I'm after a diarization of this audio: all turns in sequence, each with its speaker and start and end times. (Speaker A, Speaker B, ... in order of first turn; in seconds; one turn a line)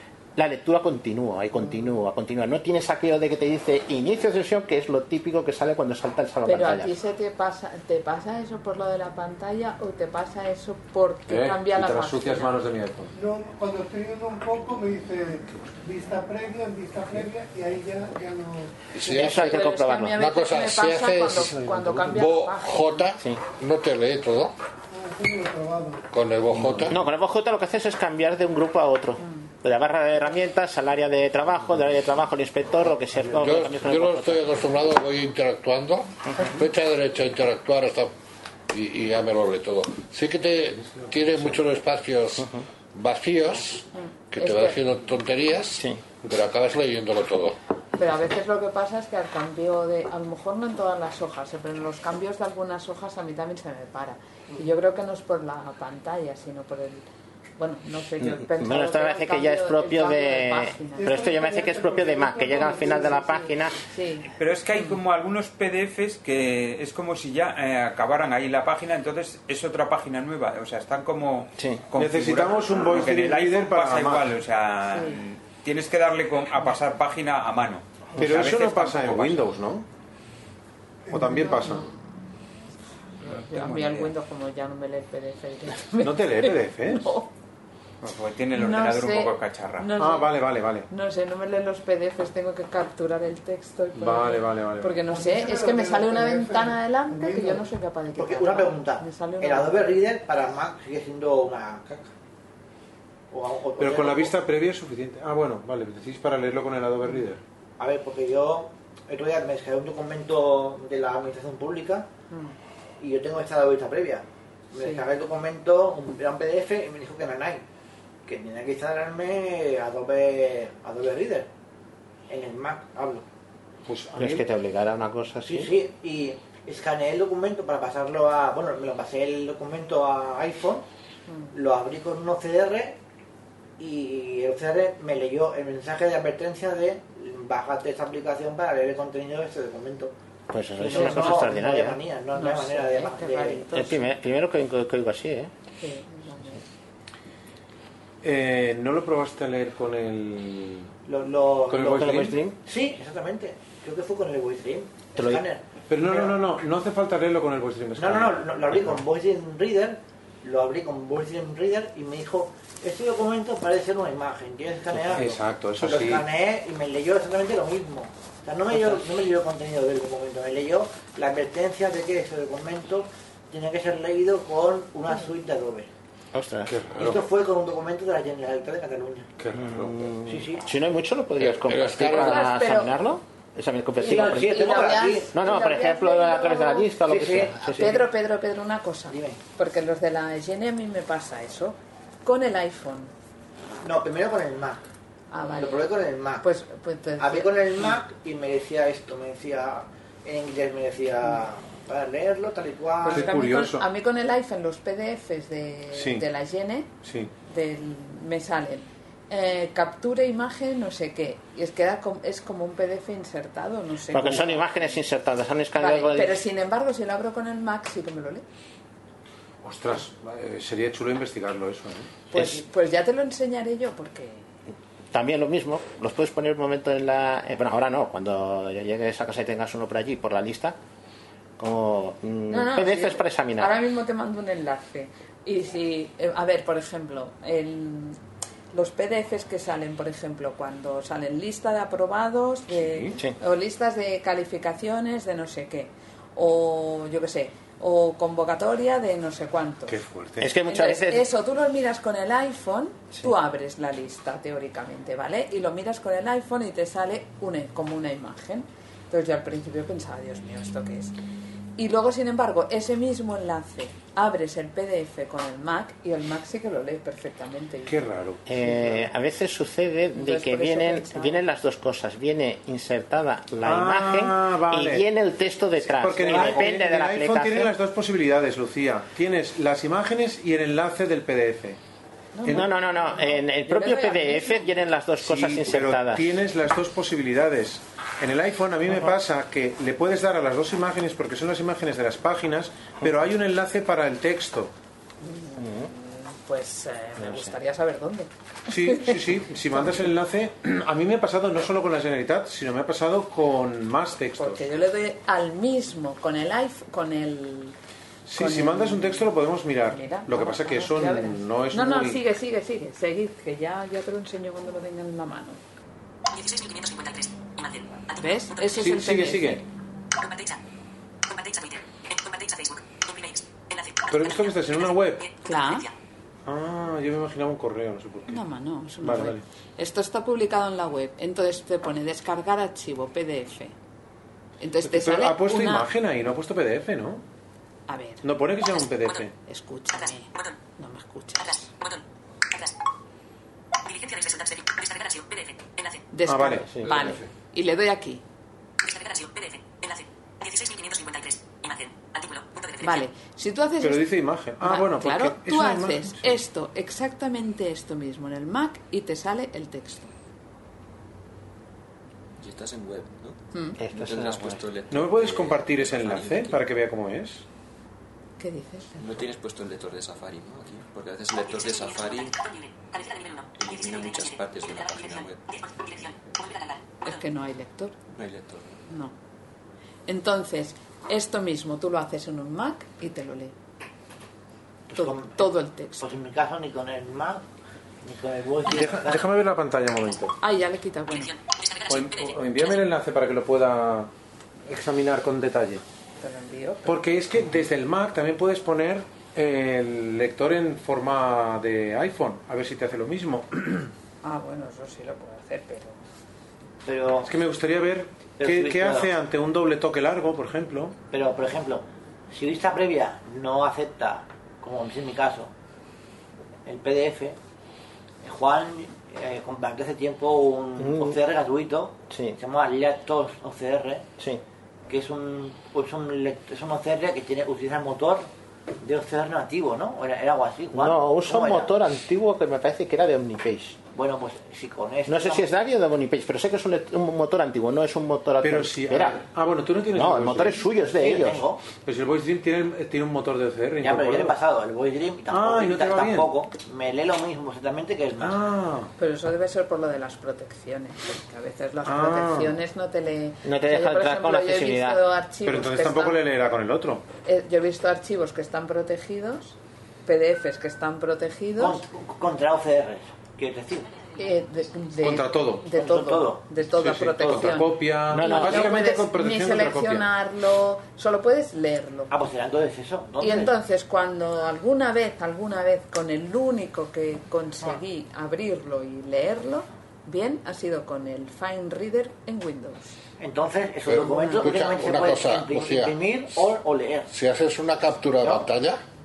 Speaker A: 0.4-7.0
Speaker B: 6.5-12.6
Speaker C: 11.3-13.1
Speaker D: 13.1-19.1
Speaker E: 18.9-19.6
Speaker A: 19.0-20.2
Speaker B: 19.2-23.1
Speaker E: 20.1-21.5
Speaker C: 21.4-22.3
Speaker E: 22.1-24.6
Speaker D: 24.9-26.1
Speaker E: 26.1-27.0
Speaker A: 26.8-34.5
Speaker E: 33.4-38.1
Speaker E: 38.7-47.6
Speaker C: 40.8-41.5
Speaker A: 42.4-42.6
Speaker B: 44.0-44.8
Speaker B: 48.0-57.1
Speaker B: 57.6-61.2
Speaker A: 58.2-63.8
Speaker D: 61.0-63.5
Speaker B: 63.9-65.0
Speaker F: 64.4-79.4
Speaker A: 71.6-71.8
Speaker C: 71.9-74.3
Speaker B: 74.9-75.2
Speaker C: 78.2-79.9
Speaker D: 81.1-81.8
Speaker C: 81.1-81.9
Speaker B: 83.2-87.3
Speaker F: 83.2-84.1
Speaker C: 86.0-87.1
Speaker F: 88.0-89.9
Speaker B: 88.5-100.0
Speaker C: 90.0-90.9
Speaker C: 94.0-95.0
Speaker D: 95.1-97.7
Speaker G: 98.2-102.1
Speaker G: 103.3-104.3
Speaker C: 103.8-107.4
Speaker G: 107.8-112.1
Speaker G: 113.0-117.6
Speaker B: 114.8-115.0
Speaker G: 118.3-121.5
Speaker G: 122.3-123.2
Speaker C: 123.9-124.4
Speaker A: 124.2-125.7
Speaker G: 125.5-130.8
Speaker B: 131.3-131.5
Speaker G: 131.5-133.0
Speaker G: 133.8-140.1
Speaker A: 140.5-142.0
Speaker G: 140.8-143.7
Speaker B: 140.9-141.4
Speaker B: 142.3-144.1
Speaker A: 143.7-145.5
Speaker B: 145.8-146.6
Speaker C: 148.2-150.9
Speaker G: 151.1-156.4
Speaker C: 151.7-152.4
Speaker A: 151.8-152.6
Speaker A: 155.2-155.4
Speaker C: 155.9-158.9
Speaker G: 158.0-175.9
Speaker C: 165.1-166.2
Speaker A: 176.3-176.8
Speaker C: 176.7-177.2
Speaker G: 176.9-179.3
Speaker C: 179.4-179.9
Speaker A: 179.5-188.0
Speaker G: 180.2-180.6
Speaker E: 181.4-182.3
Speaker B: 181.9-183.0
Speaker B: 184.0-186.9
Speaker G: 184.0-185.3
Speaker G: 187.1-187.6
Speaker B: 187.6-193.1
Speaker G: 189.1-189.4
Speaker G: 193.8-194.8
Speaker B: 195.3-195.9
Speaker G: 195.6-196.4
Speaker B: 196.4-198.0
Speaker G: 197.2-203.3
Speaker B: 203.0-206.9
Speaker C: 203.1-203.8
Speaker C: 205.9-206.2
Speaker C: 207.0-207.3
Speaker B: 207.5-214.7
Speaker A: 214.1-216.4
Speaker B: 215.8-218.4
Speaker C: 219.6-222.1
Speaker B: 222.3-224.5
Speaker A: 222.3-222.6
Speaker A: 225.1-230.8
Speaker A: 231.6-233.7
Speaker B: 232.5-238.2
Speaker B: 238.7-250.0
Speaker C: 249.9-250.5
Speaker A: 250.4-251.3
Speaker B: 250.7-261.2
Speaker B: 261.8-268.1
Speaker C: 267.9-268.4
Speaker A: 268.5-277.7
Speaker B: 270.2-271.4
Speaker C: 273.6-275.1
Speaker C: 275.9-281.8
Speaker G: 276.3-276.6
Speaker B: 282.3-284.8
Speaker A: 282.4-286.3
Speaker C: 285.2-294.7
Speaker B: 295.2-299.2
Speaker A: 295.6-295.9
Speaker A: 297.2-297.5
Speaker C: 298.7-304.6
Speaker B: 304.4-307.8
Speaker C: 308.3-312.2
Speaker B: 308.4-315.6
Speaker H: 316.3-318.7
Speaker B: 318.2-319.6
Speaker C: 318.8-319.6
Speaker H: 320.2-320.6
Speaker H: 321.3-325.9
Speaker C: 324.1-325.2
Speaker B: 325.4-325.9
Speaker C: 326.5-328.4
Speaker B: 328.3-333.8
Speaker C: 329.0-329.4
Speaker B: 334.6-335.9
Speaker C: 334.8-337.2
Speaker B: 337.9-338.3
Speaker C: 338.2-339.3
Speaker B: 339.5-341.7
Speaker H: 340.0-340.5
Speaker H: 341.4-342.7
Speaker H: 343.8-346.1
Speaker B: 346.1-348.2
Speaker C: 346.3-347.1
Speaker H: 348.8-353.1
Speaker B: 352.8-360.1
Speaker C: 353.8-356.4
Speaker I: 362.4-363.4
Speaker A: 363.8-364.6
Speaker I: 363.9-366.6
Speaker C: 364.9-367.4
Speaker B: 368.4-369.2
Speaker I: 369.0-372.4
Speaker H: 371.4-377.2
Speaker I: 373.6-375.4
Speaker B: 377.1-377.9
Speaker I: 378.1-378.8
Speaker B: 378.9-379.1
Speaker B: 380.1-383.5
Speaker G: 384.9-385.5
Speaker B: 384.9-386.1
Speaker G: 386.0-387.4
Speaker G: 388.0-389.3
Speaker C: 388.7-390.4
Speaker B: 390.4-391.3
Speaker H: 391.1-392.7
Speaker C: 391.9-394.1
Speaker C: 394.7-395.8
Speaker B: 396.2-397.0
Speaker C: 396.9-403.9
Speaker B: 404.2-406.0
Speaker G: 406.9-407.3
Speaker C: 407.2-411.0
Speaker G: 408.4-409.1
Speaker G: 411.1-415.5
Speaker G: 416.6-417.4
Speaker G: 418.2-424.1
Speaker A: 420.8-421.2
Speaker A: 422.1-422.4
Speaker G: 424.9-428.3
Speaker G: 428.8-431.7
Speaker A: 430.7-433.8
Speaker G: 433.9-435.5
Speaker A: 435.1-439.2
Speaker C: 438.4-440.6
Speaker A: 439.9-441.4
Speaker G: 440.9-441.6
Speaker C: 441.8-444.4
Speaker G: 443.8-448.4
Speaker C: 445.3-446.3
Speaker C: 448.2-448.9
Speaker B: 449.0-456.2
Speaker C: 451.9-452.5
Speaker A: 453.4-455.0
Speaker C: 455.4-457.0
Speaker B: 457.2-461.8
Speaker G: 461.6-463.9
Speaker B: 464.2-472.1
Speaker C: 465.0-465.7
Speaker G: 465.7-466.5
Speaker C: 466.6-470.1
Speaker A: 468.1-468.7
Speaker G: 472.1-473.5
Speaker B: 473.2-483.0
Speaker G: 483.2-487.1
Speaker E: 483.9-485.9
Speaker E: 487.1-488.8